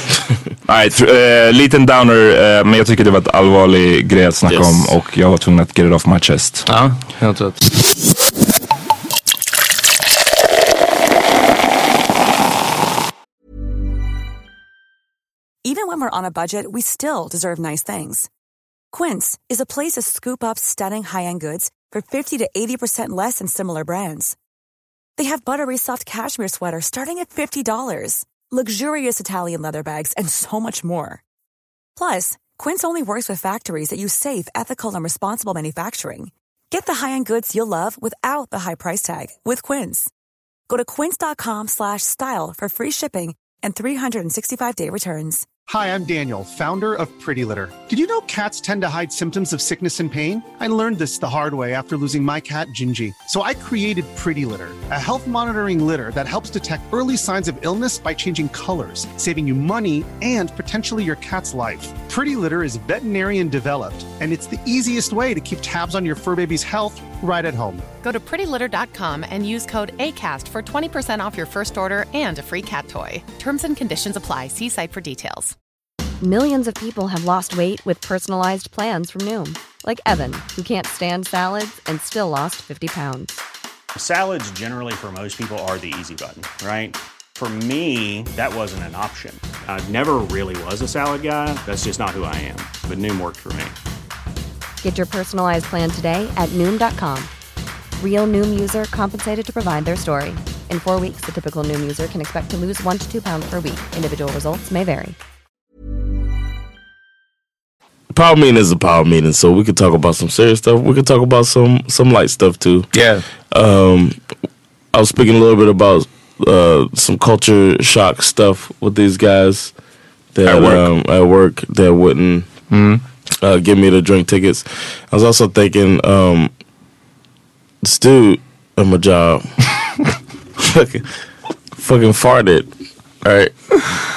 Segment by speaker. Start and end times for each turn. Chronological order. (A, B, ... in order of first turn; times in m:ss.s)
0:00.7-0:06.7 A
0:04.5-0:04.9 B
0:06.7-0:07.6 B
0:15.6-0:18.3 C
0:18.9-0:24.4 C
0:25.2-0:31.2 C
0:32.0-0:40.1 C
0:40.7-0:45.5 C
0:45.7-1:07.8 D
1:08.0-1:15.6 E
1:16.2-1:23.4 F
1:24.0-1:33.7 G
1:34.8-1:37.3 F
1:38.0-1:45.2 F
1:48.1-1:53.0 H
1:52.9-1:53.2 B
1:53.5-1:54.2 H
1:54.9-1:59.7 H
2:00.4-2:02.5 H
2:00.5-2:00.9 A
2:02.7-2:03.0 B
2:03.4-2:06.5 H
2:07.8-2:09.7 H
2:10.6-2:11.1 H
2:11.8-2:12.7 H
2:13.2-2:13.8 H